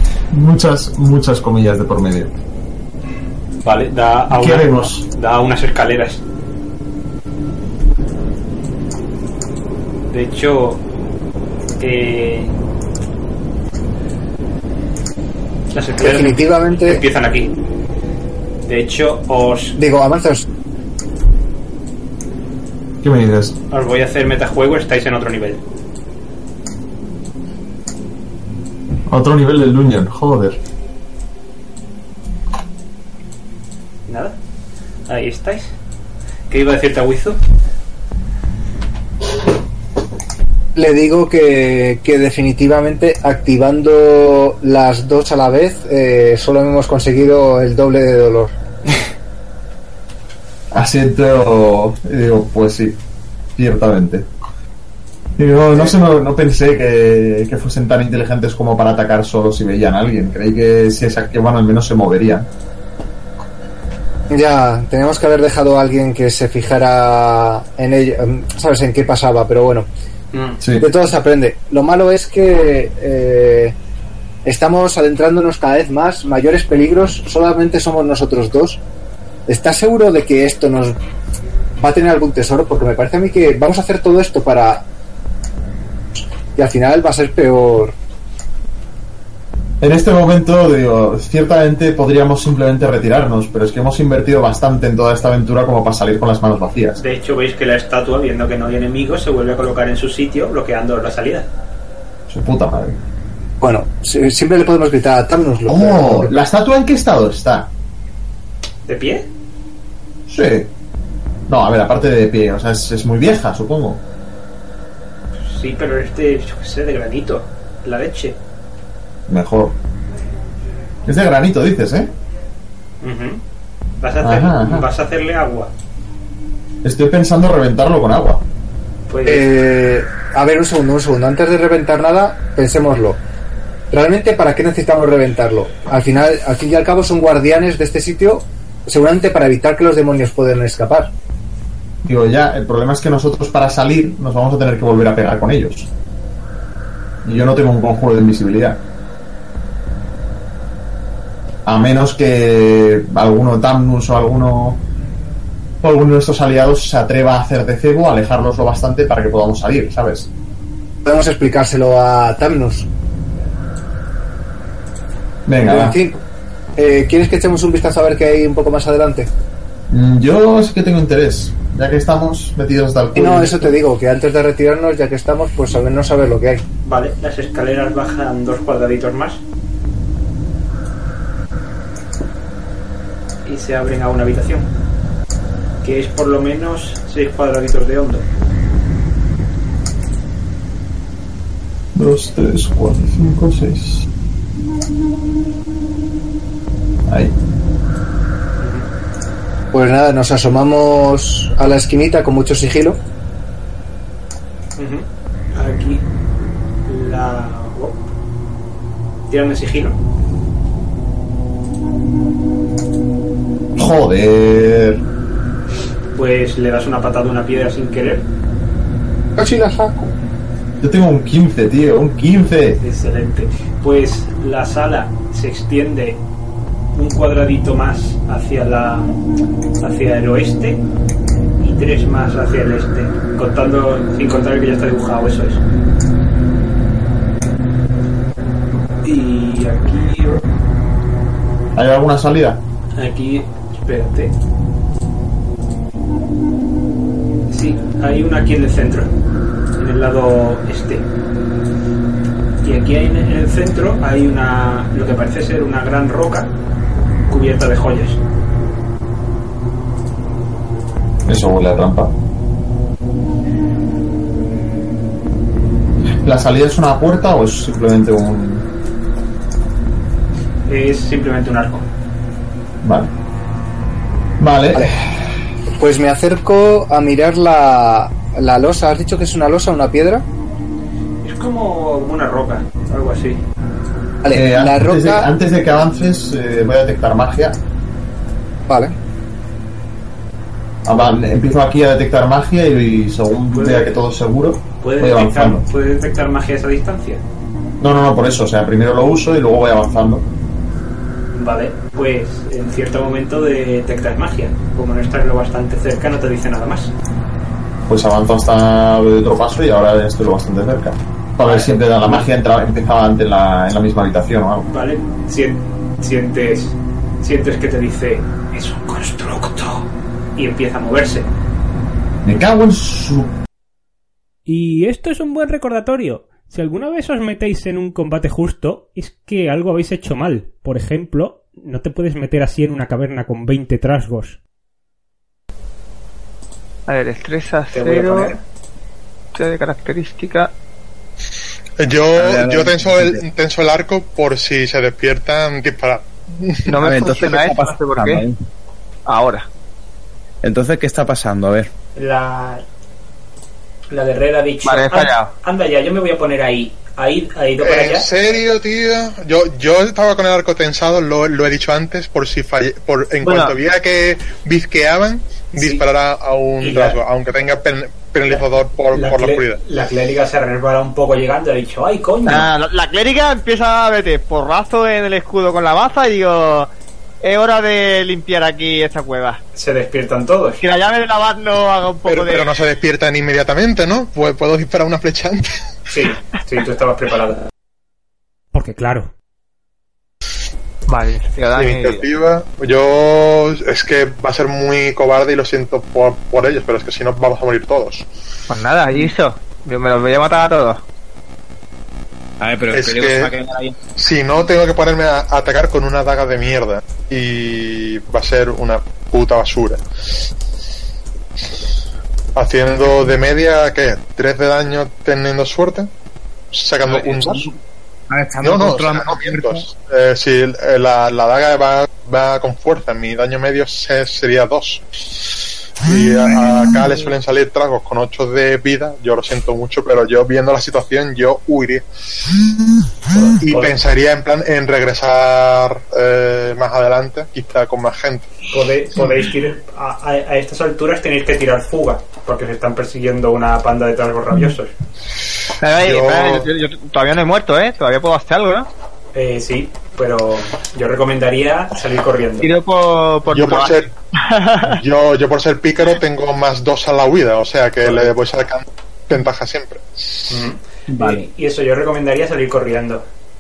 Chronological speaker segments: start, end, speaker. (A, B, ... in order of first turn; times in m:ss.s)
0:00.3-0:02.3 A
0:03.6-0:06.2 B
0:04.3-0:05.1 A
0:10.1-0:10.8 B
0:11.8-0:12.6 B
0:15.7-0:17.5 B
0:16.0-0:17.0 C
0:18.6-0:19.8 B
0:19.8-0:20.5 C
0:23.0-0:23.6 A
0:23.7-0:25.6 B
0:29.1-0:30.6 A
0:34.1-0:34.4 B
0:35.1-0:35.8 B
0:36.5-0:37.4 B
0:40.8-0:48.6 C
0:50.7-0:53.0 A
0:53.6-0:54.3 A
0:55.4-1:02.5 A
1:04.3-1:09.9 C
1:10.3-1:10.6 B
1:10.6-1:10.9 A
1:10.8-1:13.8 C
1:14.4-1:18.8 C
1:19.5-1:21.0 C
1:21.8-1:24.9 C
1:26.6-1:28.0 C
1:29.8-1:37.0 A
1:37.0-1:41.5 B
1:42.3-1:43.0 A
1:43.6-1:46.4 C
1:45.7-1:47.7 A
1:48.8-1:49.3 B
1:50.3-1:50.7 A
1:51.5-1:54.0 A
1:55.4-1:58.4 B
1:59.3-1:59.8 A
2:01.0-2:02.1 A
2:03.0-2:03.4 B
2:04.0-2:05.7 B
2:04.2-2:04.9 A
2:06.8-2:08.4 A
2:09.1-2:09.5 B
2:09.3-2:13.2 C
2:13.9-2:21.1 C
2:22.0-2:25.9 A
2:27.2-2:28.8 A
2:31.6-2:34.8 A
2:35.8-2:40.3 A
2:41.0-2:42.9 C
2:45.5-2:46.0 A
2:45.6-2:46.2 C
2:46.8-2:49.3 C
2:49.9-2:53.8 A
2:53.2-2:56.6 C
2:56.8-2:59.4 B
3:03.4-3:04.7 B
3:05.8-3:08.3 B
3:12.0-3:14.1 A
3:17.1-3:17.4 A
3:18.6-3:18.9 B
3:19.7-3:23.0 C
3:24.8-3:26.0 B
3:26.9-3:28.1 B
3:29.3-3:30.0 B
3:33.8-3:35.0 A
3:36.2-3:38.3 B
3:39.4-3:40.1 C
3:40.8-3:42.8 A
3:42.8-3:46.2 B
3:46.9-3:49.2 B
3:49.8-3:50.8 B
3:51.6-3:55.6 B
3:59.0-4:00.5 B
4:01.7-4:02.6 A
4:03.0-4:04.3 B
4:07.5-4:09.1 B
4:09.8-4:11.1 B
4:12.6-4:16.5 B
4:17.3-4:18.2 B
4:21.2-4:22.2 A
4:26.2-4:28.7 A
4:30.7-4:31.9 B
4:32.8-4:33.1 A
4:34.4-4:35.0 A
4:35.8-4:40.3 C
4:41.2-4:43.4 B
4:44.2-4:45.3 C
4:44.3-4:47.6 A
4:48.7-4:49.0 C
4:50.8-4:55.6 A
4:53.5-4:53.9 B
4:54.8-4:57.2 B
4:57.8-5:00.3 A
5:01.4-5:06.9 B
5:07.9-5:14.7 A
5:11.4-5:12.3 B
5:14.7-5:21.3 B
5:22.2-5:23.3 A
5:24.5-5:34.4 D
5:36.9-5:38.4 E
5:37.7-5:38.4 B
5:39.3-5:40.5 E
5:41.8-5:46.7 F
5:42.2-5:43.2 G
5:46.7-5:48.2 E
5:46.8-5:48.4 G
5:49.1-5:49.5 E
5:50.4-5:51.7 G
5:52.0-5:52.6 B
5:53.9-5:58.1 B
5:54.6-5:55.3 E
5:57.6-6:09.6 F
6:03.2-6:03.5 E
6:05.6-6:05.8 B
6:06.6-6:07.0 B
6:08.3-6:12.5 B
6:12.2-6:16.7 E
6:17.2-6:19.4 E
6:19.5-6:20.6 B
6:20.6-6:22.5 E
6:22.1-6:25.6 F
6:25.9-6:27.4 B
6:28.5-6:29.1 D
6:30.9-6:32.0 E
6:31.5-6:38.1 F
6:38.5-6:40.8 E
6:42.4-6:43.8 G
6:42.7-6:43.3 F
6:44.0-6:49.8 F
6:52.4-6:55.9 F
6:56.5-6:57.5 F
6:56.9-6:57.5 G
6:58.1-6:59.6 G
6:58.4-7:04.9 F
7:05.8-7:11.9 F
7:13.1-7:13.7 B
7:13.4-7:18.3 F
7:18.5-7:24.7 B
7:25.6-7:28.7 E
7:25.8-7:26.5 F
7:29.1-7:32.5 B
7:32.4-7:34.8 E
7:33.3-7:33.9 F
7:34.6-7:39.9 F
7:37.8-7:38.1 B
7:40.3-7:43.0 B
7:40.9-7:41.2 G